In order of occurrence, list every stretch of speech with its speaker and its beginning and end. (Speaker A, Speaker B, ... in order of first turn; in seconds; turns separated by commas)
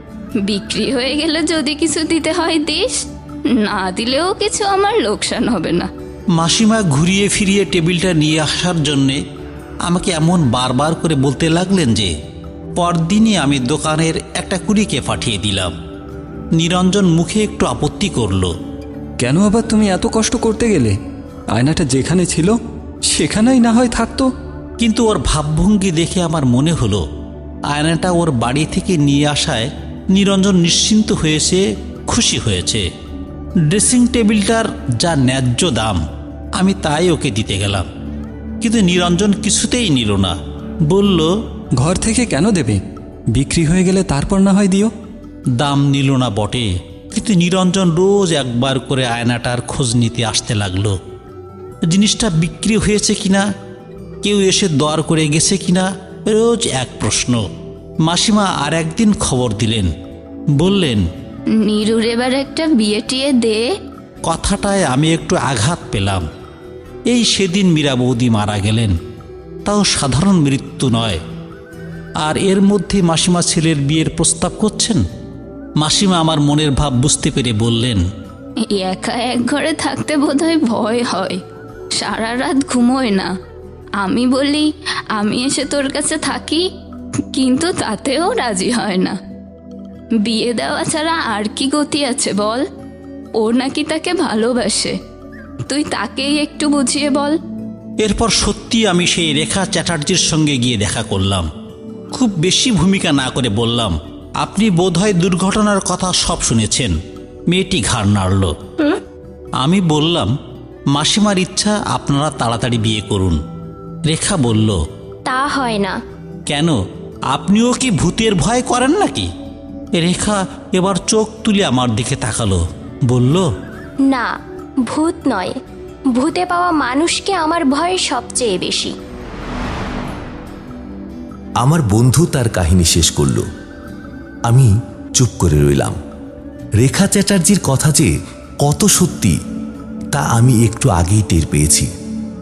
Speaker A: 0.4-5.9, Speaker B: 6.4-9.2, Speaker B: 9.9-12.1, Speaker B: 12.8-15.8, Speaker B: 16.6-18.5, Speaker C: 19.2-20.9, Speaker C: 21.6-22.5, Speaker C: 23.1-24.3, Speaker B: 24.8-27.1, Speaker B: 27.7-32.9, Speaker B: 33.7-36.0, Speaker B: 36.6-37.9, Speaker B: 38.6-41.3, Speaker C: 41.8-42.8, Speaker C: 43.3-44.9, Speaker B: 45.6-51.0, Speaker B: 51.9-53.5, Speaker B: 54.2-57.5, Speaker B: 58.0-59.9, Speaker B: 60.6-61.0, Speaker A: 61.6-63.7, Speaker B: 64.3-66.3, Speaker B: 67.1-69.0, Speaker B: 69.7-71.2, Speaker B: 72.2-75.0, Speaker B: 75.8-78.0, Speaker A: 78.6-81.4, Speaker A: 82.0-83.3, Speaker A: 84.0-86.7, Speaker A: 87.3-89.2, Speaker A: 90.2-92.6, Speaker A: 93.4-95.0, Speaker A: 95.7-97.4, Speaker B: 98.0-101.5, Speaker B: 102.1-106.9, Speaker B: 107.5-108.6, Speaker B: 109.6-110.3, Speaker B: 110.9-113.4, Speaker B: 114.1-114.8, Speaker D: 115.3-116.0, Speaker B: 116.5-116.8, Speaker B: 117.3-119.3, Speaker B: 120.0-123.5, Speaker D: 124.9-125.5, Speaker D: 126.1-128.9, Speaker E: 131.6-133.5, Speaker E: 134.5-136.0, Speaker E: 136.8-138.1, Speaker E: 138.6-139.4, Speaker E: 140.1-141.9